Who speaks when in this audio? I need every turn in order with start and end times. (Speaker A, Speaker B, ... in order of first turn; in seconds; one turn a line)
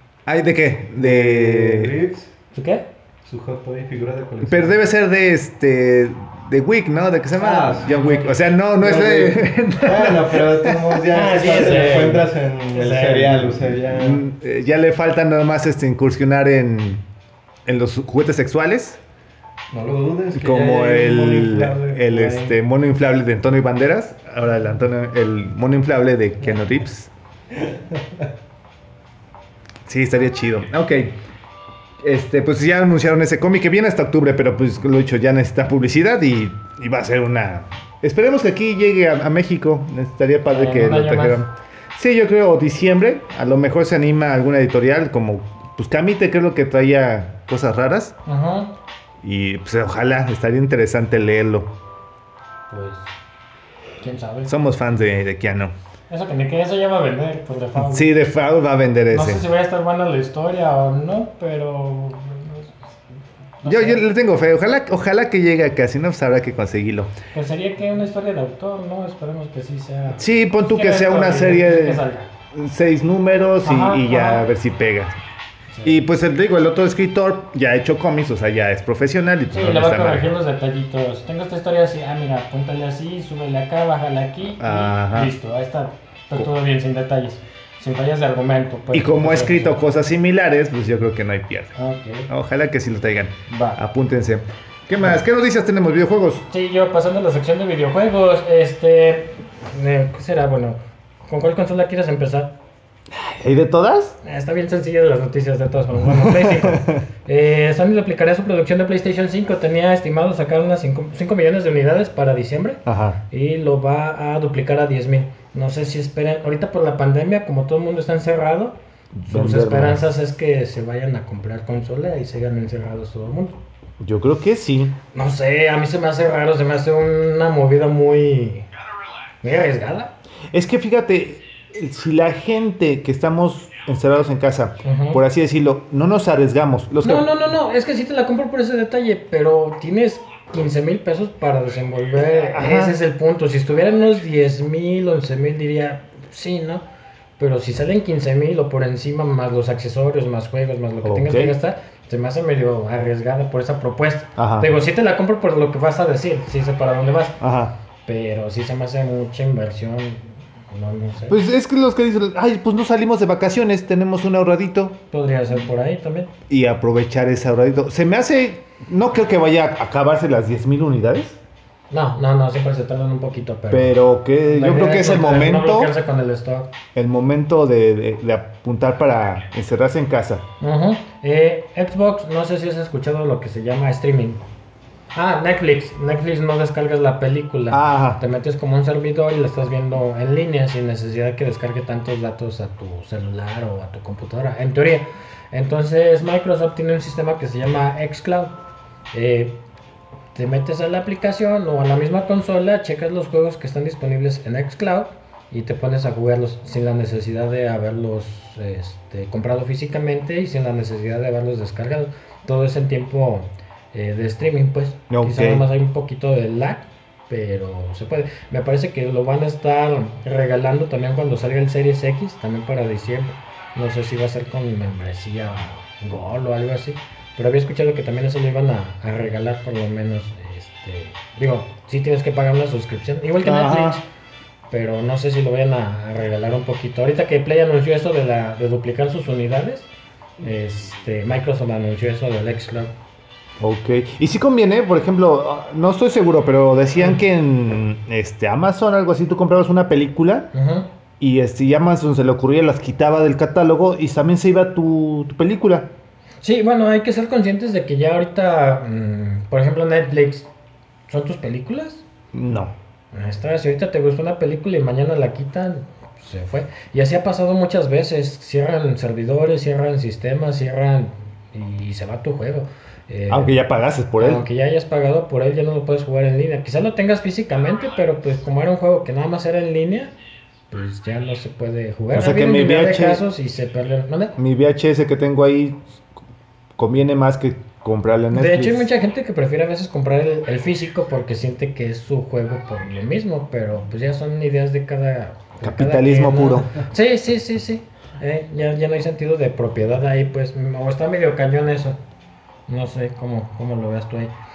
Speaker A: 0.2-1.9
Speaker B: 0.9-2.3
Speaker C: 2.5-2.9
Speaker B: 3.2-4.8
Speaker A: 4.4-11.0
Speaker B: 7.3-8.2
Speaker B: 8.8-14.2
Speaker C: 11.1-13.4
Speaker A: 13.8-17.0
Speaker A: 17.6-19.0
Speaker B: 19.7-22.5
Speaker A: 20.3-27.1
Speaker B: 27.6-28.2
Speaker A: 29.9-31.2
Speaker A: 32.0-48.1
Speaker C: 40.5-41.5
Speaker C: 48.2-48.7
Speaker A: 49.2-51.7
Speaker C: 52.7-53.1
Speaker C: 54.0-54.5
Speaker A: 54.5-55.7
Speaker C: 56.1-58.1
Speaker A: 57.8-59.4
Speaker C: 59.1-62.7
Speaker C: 63.6-64.0
Speaker A: 63.6-67.1
Speaker C: 67.3-72.3
Speaker A: 70.1-75.2
Speaker C: 73.6-74.5
Speaker A: 75.8-80.3
Speaker C: 79.5-89.8
Speaker A: 84.6-85.3
Speaker A: 88.9-91.7
Speaker C: 91.8-92.3
Speaker A: 92.3-96.4
Speaker C: 93.5-93.8
Speaker C: 96.5-102.5
Speaker A: 103.1-104.2
Speaker C: 104.2-118.8
Speaker A: 106.0-107.0
Speaker A: 112.8-113.2
Speaker A: 119.1-120.0
Speaker C: 119.3-123.5
Speaker A: 124.0-125.0
Speaker C: 125.1-128.7
Speaker C: 129.4-130.1
Speaker A: 130.5-137.3
Speaker C: 134.8-135.2
Speaker C: 137.0-146.8
Speaker A: 142.5-142.9
Speaker C: 147.4-157.4
Speaker A: 151.0-151.6
Speaker A: 154.4-154.7
Speaker A: 157.4-157.7
Speaker C: 158.1-161.4
Speaker A: 161.3-165.0
Speaker C: 165.1-166.3
Speaker A: 166.5-171.4
Speaker C: 171.9-176.7
Speaker A: 173.7-175.9
Speaker A: 176.9-180.4
Speaker C: 180.6-184.4
Speaker C: 185.1-198.5
Speaker A: 187.7-188.2
Speaker C: 199.1-199.6
Speaker C: 200.3-234.0
Speaker A: 215.1-215.6
Speaker A: 233.4-234.0
Speaker C: 234.7-239.9
Speaker C: 240.4-242.9
Speaker A: 243.6-250.5
Speaker C: 250.5-250.9
Speaker A: 251.2-255.9
Speaker C: 256.4-260.5
Speaker C: 261.1-262.0
Speaker A: 262.3-262.7
Speaker C: 263.1-273.6
Speaker A: 273.3-274.4
Speaker C: 274.2-280.1
Speaker C: 280.7-284.4
Speaker A: 282.1-283.2
Speaker A: 284.4-285.8
Speaker A: 286.8-288.9
Speaker C: 288.3-302.0
Speaker A: 295.6-296.7
Speaker C: 302.7-304.3